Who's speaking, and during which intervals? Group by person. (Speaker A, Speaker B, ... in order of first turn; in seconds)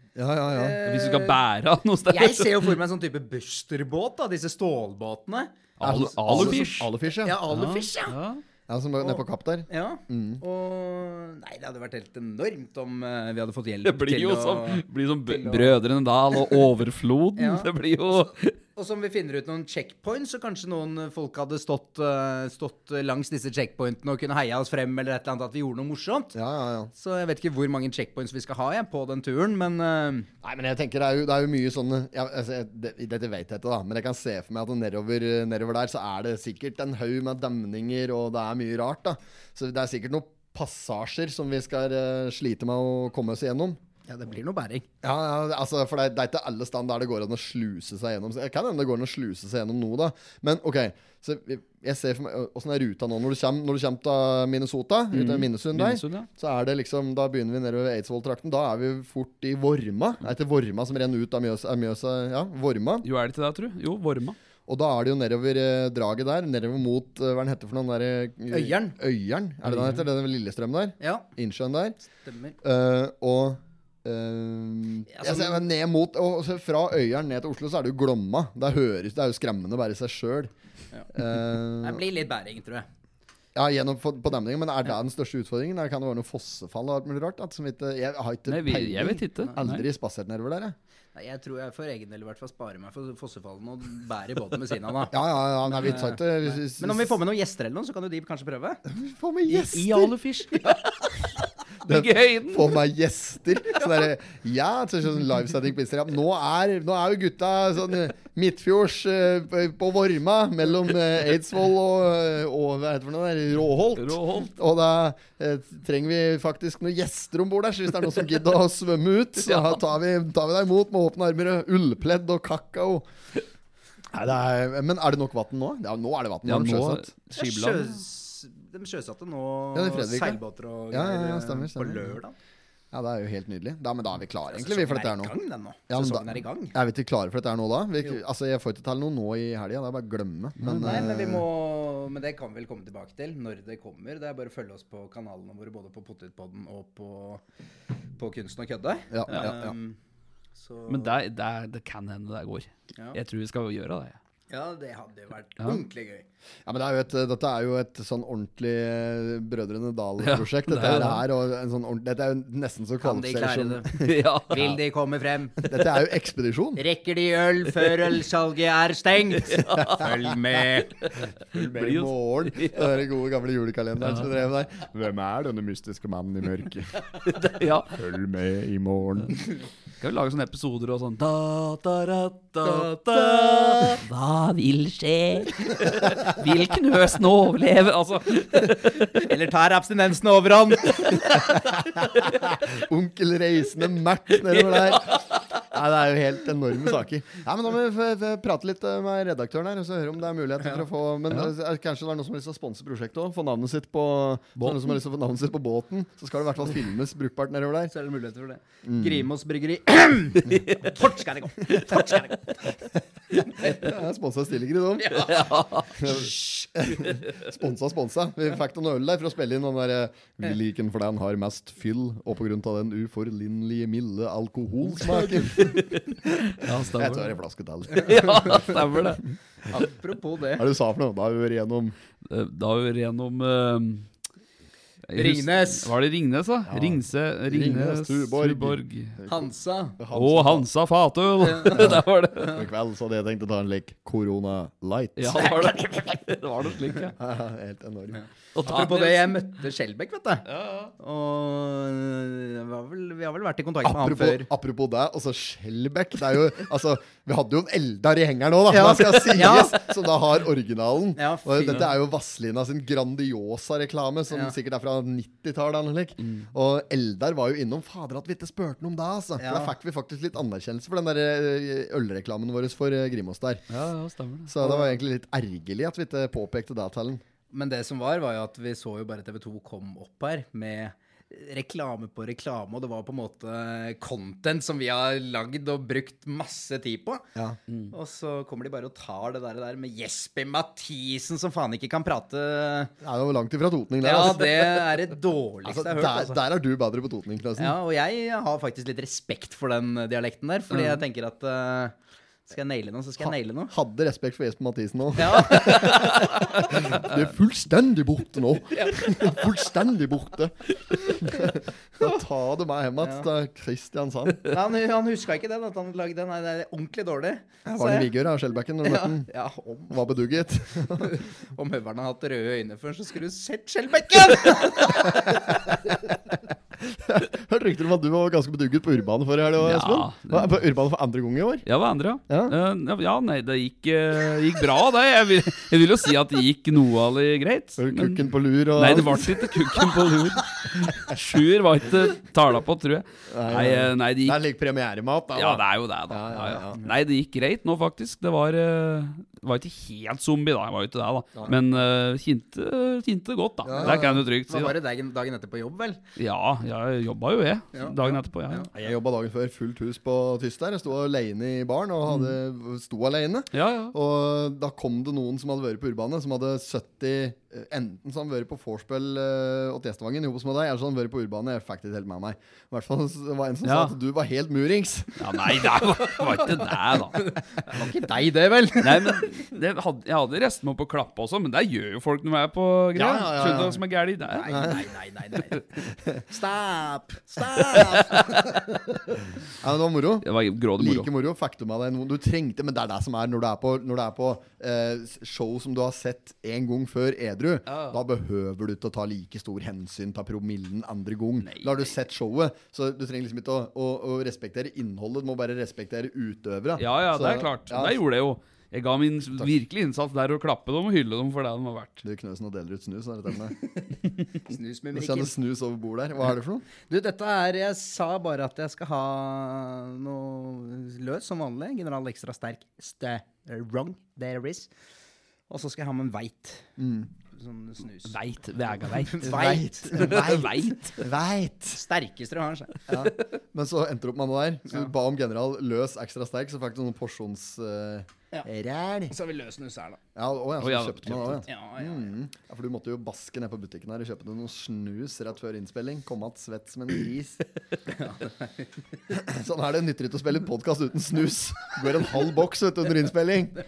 Speaker A: 0.1-0.8, 5.8-7.4, 8.7-10.4, 26.3-26.9, 30.4-43.8, 45.0-63.1, 64.7-72.0, 72.6-80.5, 81.1-82.0, 83.5-90.8, 95.1-97.2, 98.8-100.1, 101.8-123.1, 124.1-127.1, 129.7-132.2, 132.9-135.3, 135.9-141.4, 149.1-149.7, 156.7-164.8, 165.6-166.8, 169.7-170.2, 171.4-177.2, 177.9-179.4, 191.2-207.9, 208.8-209.3, 213.6-226.1, 226.6-229.2, 230.6-231.9, 236.7-240.7, 241.7-245.7, 247.2-248.2, 253.8-273.6, 274.5-277.2, 293.0-294.8, 295.6-297.8, 303.2-314.5, 317.7-319.3, 319.9-321.2, 325.0-325.9, 326.8-331.6, 332.3-332.6, 337.8-339.7, 343.3-346.8, 353.6-354.2, 358.7-375.6, 382.9-383.8, 384.5-384.8, 389.5-408.0, 412.0-413.6, 414.9-416.7, 426.8-427.1, 429.2-431.8, 432.9-439.1, 440.1-447.4, 449.1-453.6
Speaker B: 0.5-1.4, 2.1-5.6, 6.3-8.2, 9.0-15.8, 17.4-17.7, 18.8-26.4, 26.9-30.3, 44.1-44.8, 68.5-69.0, 71.0-71.3, 72.2-72.5, 75.1-75.6, 81.8-82.9, 91.1-98.8, 127.3-132.3, 134.5-136.8, 140.8-147.4, 148.2-150.0, 150.6-151.1, 154.5-156.2, 163.0-165.6, 166.8-171.1, 182.6-184.0, 189.2-191.4, 207.9-212.7, 213.6-213.8, 215.0-216.7, 227.9-228.7, 229.7-230.6, 235.1-235.9, 239.2-240.0, 241.4-241.9, 248.1-250.5, 251.0-254.5, 258.7-259.8, 261.2-261.9, 264.3-264.5, 269.4-269.7, 274.6-274.9, 277.5-287.3, 287.9-292.9, 294.0-296.4, 297.6-301.9, 302.4-303.7, 305.2-306.1, 308.7-309.4, 313.0-313.3, 314.4-318.1, 318.8-319.9, 321.0-325.5, 353.7-356.0, 357.7-358.7, 376.0-376.5, 377.1-379.5, 384.3-385.6, 386.3-388.6, 414.4-415.3, 416.8-424.7, 425.5-426.7, 427.3-428.1, 429.0-430.2, 431.7-432.8, 439.1-440.0, 441.4-442.1, 447.9-448.7
Speaker C: 0.8-2.8, 5.8-6.9, 7.5-8.4, 13.8-18.6, 55.1-56.3, 63.0-64.3, 69.6-70.0, 88.5-89.8, 99.5-101.2, 101.8-102.8, 114.0-114.5, 119.4-119.8, 126.4-128.0, 140.6-141.1, 150.9-154.2, 160.2-161.2, 164.0-164.8, 169.4-170.1, 171.0-173.0, 174.0-174.3, 177.1-178.0, 180.0-189.3, 194.5-195.6, 204.6-204.9, 210.5-210.8, 215.2-215.9, 225.1-227.3, 227.9-229.2, 232.3-234.1, 235.1-239.2, 240.1-242.6, 245.2-247.2, 248.6-249.4, 250.5-250.9, 273.7-274.5, 329.6-330.5, 331.6-344.4, 345.3-354.8, 356.2-358.7, 362.1-362.4, 363.5-363.9, 373.6-374.0, 375.2-377.3, 378.8-384.6, 387.8-388.4, 390.2-391.1, 397.7-397.9, 401.4-401.9, 406.8-412.0, 428.1-431.0, 440.6-441.5